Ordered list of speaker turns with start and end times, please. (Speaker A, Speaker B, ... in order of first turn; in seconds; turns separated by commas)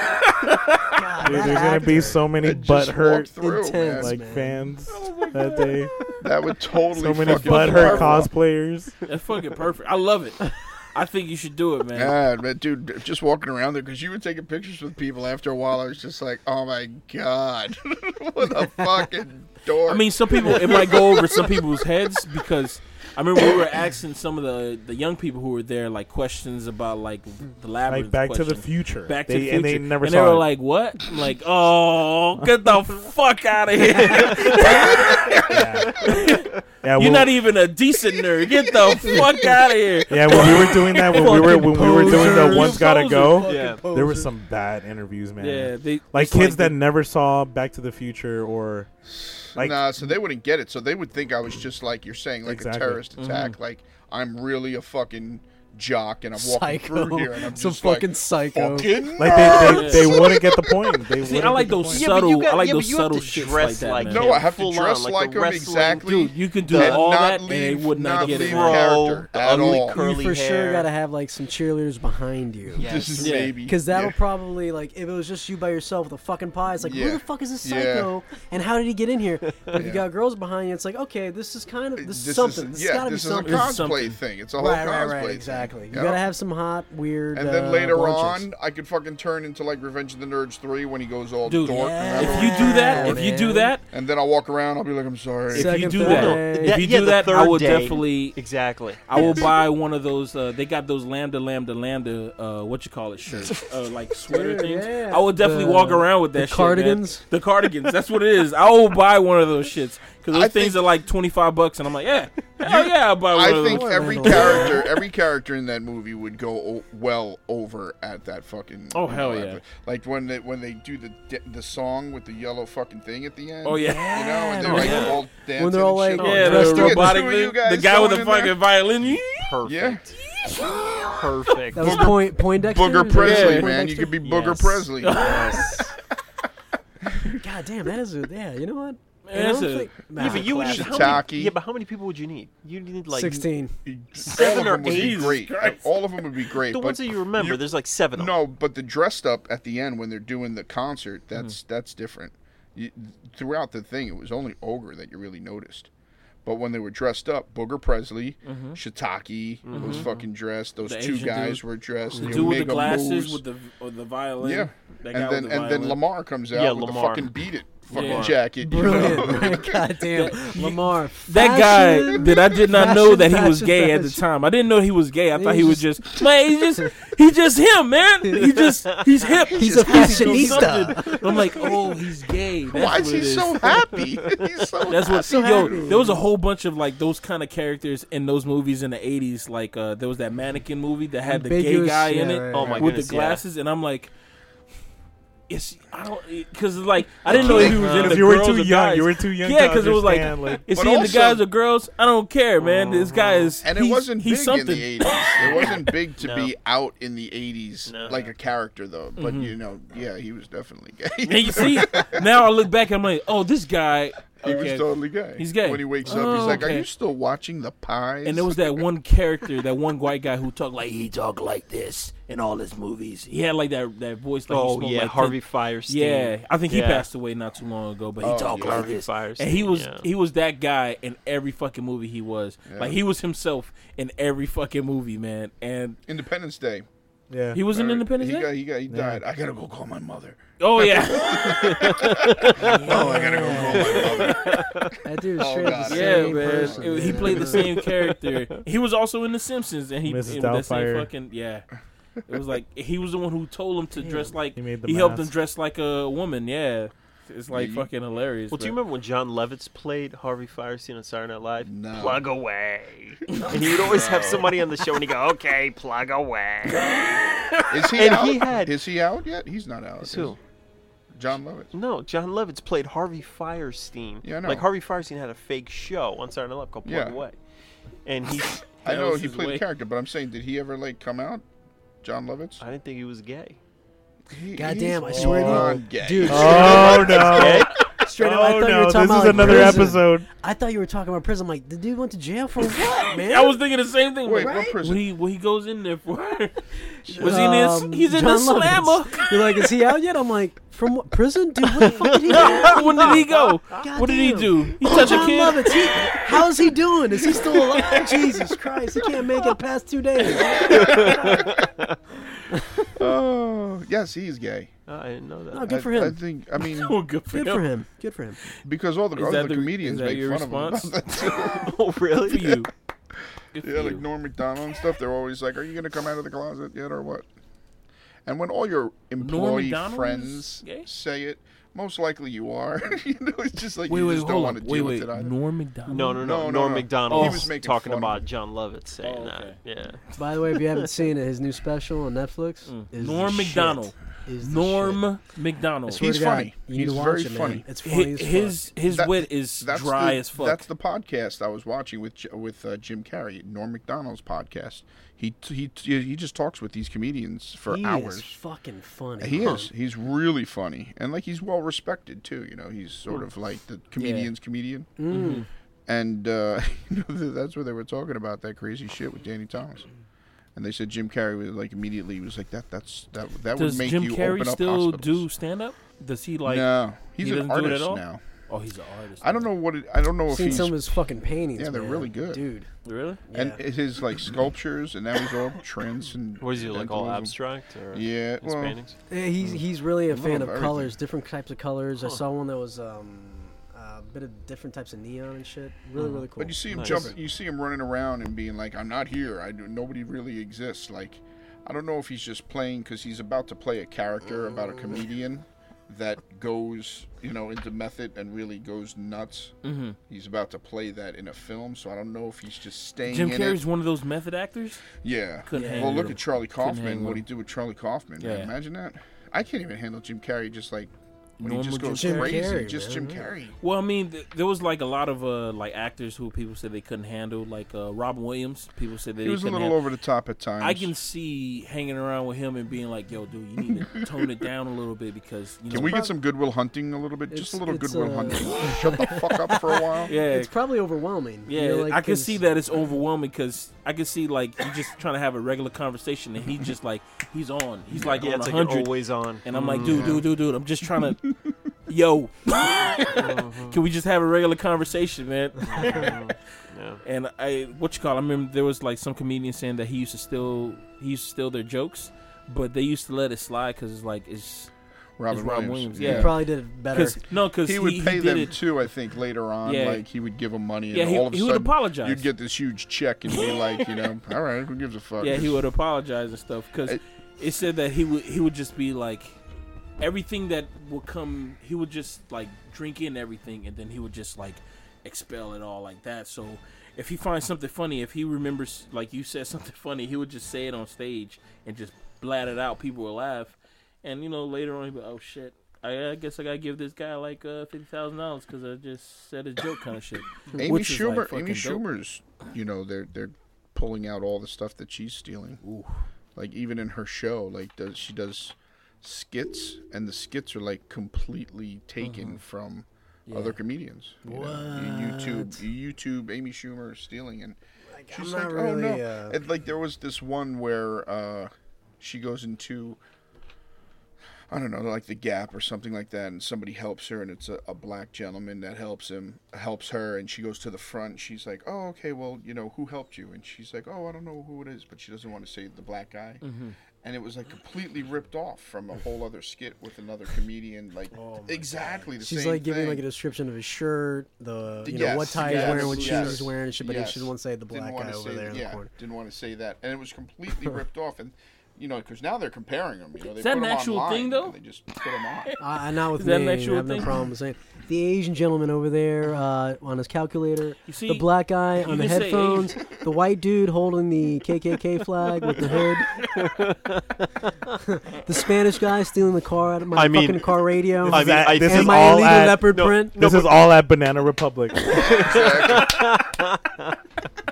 Speaker A: 0.3-0.7, Speaker B: 0.9-2.3, Speaker C: 1.2-5.9, Speaker D: 2.4-4.2, Speaker B: 3.4-4.5, Speaker A: 4.9-5.8, Speaker D: 6.2-8.3, Speaker C: 6.9-8.9, Speaker A: 7.2-8.1, Speaker B: 7.3-8.2, Speaker A: 9.0-12.2, Speaker D: 11.9-21.6, Speaker A: 19.9-43.4, Speaker C: 27.9-30.5, Speaker E: 34.1-36.6, Speaker C: 35.5-36.1, Speaker C: 36.8-37.3, Speaker C: 40.1-48.9, Speaker B: 40.3-44.3, Speaker E: 43.5-43.8, Speaker A: 45.4-46.8, Speaker D: 49.1-60.9, Speaker C: 49.5-49.9, Speaker C: 52.4-53.0, Speaker A: 53.2-53.5, Speaker B: 56.3-59.9, Speaker C: 59.2-62.0, Speaker E: 59.3-59.9, Speaker A: 59.5-60.2, Speaker A: 61.2-64.4, Speaker E: 61.9-67.0, Speaker D: 64.0-70.0, Speaker A: 66.0-68.9, Speaker E: 68.1-70.9, Speaker B: 69.5-72.9, Speaker E: 72.7-73.5, Speaker D: 72.8-74.2, Speaker A: 73.2-73.5, Speaker B: 73.6-83.7, Speaker D: 76.8-78.1, Speaker E: 79.5-79.8, Speaker D: 79.8-80.0, Speaker D: 82.0-86.2, Speaker A: 83.4-84.2, Speaker B: 84.5-88.5, Speaker D: 87.3-93.2, Speaker A: 91.4-93.8, Speaker B: 91.7-93.7, Speaker D: 93.9-96.0, Speaker A: 95.5-114.9, Speaker B: 95.5-96.8, Speaker E: 95.9-99.5, Speaker B: 99.2-99.4, Speaker B: 104.3-107.2, Speaker D: 110.3-110.8, Speaker D: 112.6-128.6, Speaker B: 113.6-114.8, Speaker A: 118.9-119.6, Speaker A: 123.6-125.2, Speaker B: 124.3-127.2, Speaker E: 124.6-125.2, Speaker A: 126.2-129.5, Speaker E: 129.2-130.1, Speaker D: 129.6-130.0, Speaker A: 130.2-131.9, Speaker E: 130.8-132.1, Speaker B: 131.7-134.5, Speaker D: 131.8-135.3, Speaker A: 133.1-133.7, Speaker E: 134.2-135.5, Speaker A: 135.0-135.9, Speaker B: 135.1-135.9, Speaker B: 137.3-141.2, Speaker A: 139.2-141.2, Speaker E: 140.1-143.5, Speaker D: 140.6-141.5, Speaker B: 143.1-143.7, Speaker D: 143.8-155.9, Speaker E: 144.2-145.8, Speaker A: 144.4-145.8, Speaker E: 146.6-148.4, Speaker D: 156.4-163.4, Speaker A: 158.4-158.8, Speaker E: 159.6-160.3, Speaker A: 159.7-160.1, Speaker A: 160.8-161.6, Speaker A: 162.1-166.0, Speaker B: 162.2-162.6, Speaker D: 164.4-169.8, Speaker E: 166.5-167.3, Speaker E: 167.9-168.4, Speaker A: 167.9-169.5, Speaker B: 168.6-174.2, Speaker E: 169.0-169.4, Speaker A: 170.1-183.8, Speaker D: 172.0-172.4, Speaker B: 175.3-176.0, Speaker D: 179.5-182.0, Speaker B: 179.5-181.4, Speaker D: 182.7-186.2, Speaker E: 183.6-184.5, Speaker A: 184.9-194.1, Speaker B: 185.1-186.2, Speaker B: 191.2-192.9, Speaker E: 192.5-193.4, Speaker D: 192.6-192.9, Speaker A: 195.5-205.9, Speaker D: 197.3-198.3, Speaker E: 197.3-198.2, Speaker C: 197.4-200.6, Speaker D: 200.7-201.4, Speaker E: 202.6-203.5, Speaker D: 203.6-212.2, Speaker E: 205.4-206.5, Speaker E: 207.8-208.3, Speaker A: 209.2-209.6, Speaker A: 211.2-216.9, Speaker D: 214.4-218.8, Speaker E: 216.1-216.6, Speaker B: 216.1-216.6, Speaker A: 218.2-236.0, Speaker E: 224.5-227.1, Speaker D: 228.2-229.0, Speaker E: 228.2-230.1, Speaker D: 232.7-233.0, Speaker D: 236.1-236.8, Speaker C: 237.3-237.6, Speaker A: 237.5-238.5, Speaker D: 237.7-244.8, Speaker C: 238.9-239.2, Speaker A: 240.6-244.3, Speaker E: 241.4-245.0, Speaker B: 242.6-244.2, Speaker B: 245.0-247.7, Speaker D: 245.3-247.4, Speaker A: 245.8-251.7, Speaker E: 247.2-248.6, Speaker C: 250.0-251.1, Speaker A: 252.3-258.8, Speaker B: 253.9-254.3, Speaker C: 254.6-255.3, Speaker D: 257.5-257.9, Speaker E: 258.5-268.8, Speaker D: 261.6-262.3, Speaker A: 263.3-264.4, Speaker D: 267.7-270.4, Speaker E: 270.0-270.4, Speaker D: 271.1-271.7, Speaker E: 271.7-277.4, Speaker D: 274.2-274.7, Speaker D: 276.8-277.2, Speaker E: 278.0-278.6, Speaker A: 278.3-279.6, Speaker D: 278.8-281.4, Speaker D: 282.0-282.6, Speaker E: 282.6-283.6, Speaker D: 284.3-287.8, Speaker B: 284.6-293.6, Speaker C: 285.4-290.3, Speaker E: 287.2-287.8, Speaker D: 289.3-289.8, Speaker A: 292.7-299.6, Speaker D: 294.2-295.0, Speaker B: 294.4-294.8, Speaker B: 297.0-311.6, Speaker D: 297.1-297.4, Speaker E: 301.8-303.1, Speaker A: 302.4-306.0, Speaker E: 305.9-306.4, Speaker E: 307.3-309.5, Speaker E: 310.5-311.9, Speaker B: 312.5-312.8, Speaker D: 312.9-314.7, Speaker E: 314.9-315.8, Speaker B: 315.5-316.2, Speaker D: 315.6-316.9, Speaker A: 316.6-317.7, Speaker B: 317.3-318.4, Speaker D: 318.6-321.8, Speaker A: 319.1-321.0, Speaker E: 321.5-322.7, Speaker A: 322.2-322.7, Speaker A: 323.5-324.0, Speaker D: 323.6-327.2, Speaker D: 328.2-335.3, Speaker A: 329.2-330.9, Speaker A: 333.9-336.2, Speaker E: 335.9-340.9, Speaker D: 336.1-338.2, Speaker A: 337.1-337.5, Speaker A: 339.0-339.6, Speaker B: 340.2-345.0, Speaker A: 342.6-346.0, Speaker B: 345.9-348.6, Speaker D: 345.9-347.6, Speaker A: 347.8-350.7, Speaker D: 348.9-358.4, Speaker B: 357.7-359.7, Speaker D: 359.2-364.9, Speaker E: 359.4-359.6, Speaker A: 363.9-364.3, Speaker B: 365.0-365.4, Speaker A: 365.1-365.4, Speaker D: 365.9-369.9, Speaker D: 370.6-375.2, Speaker A: 373.6-379.5, Speaker D: 376.4-378.2, Speaker D: 379.2-381.0, Speaker B: 380.3-382.7, Speaker D: 381.6-382.4, Speaker A: 382.8-383.2, Speaker B: 383.2-383.6, Speaker D: 383.3-387.3, Speaker E: 386.4-389.0, Speaker D: 387.9-388.8, Speaker B: 389.1-397.1, Speaker D: 390.1-390.9, Speaker D: 396.4-409.5, Speaker E: 396.7-397.1, Speaker A: 409.6-410.0, Speaker D: 410.1-413.6, Speaker A: 413.0-417.2, Speaker D: 415.0-423.6, Speaker B: 415.5-416.1, Speaker A: 418.2-418.5, Speaker A: 421.4-422.5, Speaker B: 421.9-423.3, Speaker A: 423.6-429.8, Speaker D: 429.2-430.9, Speaker A: 430.6-436.0, Speaker D: 433.7-434.0, Speaker D: 435.7-440.1, Speaker B: 435.7-436.1, Speaker B: 437.3-442.4, Speaker A: 440.1-440.5, Speaker A: 441.4-451.3, Speaker D: 447.9-448.3, Speaker E: 448.2-450.2, Speaker D: 449.5-450.2, Speaker A: 451.9-456.2, Speaker E: 453.1-453.8, Speaker E: 455.7-457.0, Speaker A: 457.0-464.7, Speaker D: 465.2-466.4, Speaker A: 465.3-468.6, Speaker B: 466.0-467.2, Speaker D: 467.6-475.6, Speaker A: 469.6-470.0, Speaker A: 470.9-472.3, Speaker A: 473.3-474.1, Speaker A: 475.2-479.4, Speaker A: 480.0-501.8, Speaker D: 500.6-505.6, Speaker A: 505.6-506.0, Speaker D: 506.4-517.6, Speaker A: 512.0-512.4, Speaker A: 513.3-513.6, Speaker B: 514.2-515.6, Speaker B: 517.9-519.4, Speaker D: 518.1-523.0, Speaker D: 524.5-536.4, Speaker A: 536.4-536.8, Speaker D: 537.0-543.0, Speaker B: 541.1-548.9, Speaker D: 544.8-555.6, Speaker A: 545.4-546.5, Speaker A: 553.4-554.5, Speaker A: 555.1-557.2, Speaker B: 555.6-566.2, Speaker A: 560.9-561.3, Speaker A: 561.8-562.8, Speaker E: 566.3-567.7, Speaker B: 567.8-573.2, Speaker E: 569.9-573.8, Speaker C: 571.0-575.1, Speaker E: 574.8-577.0, Speaker D: 574.9-576.2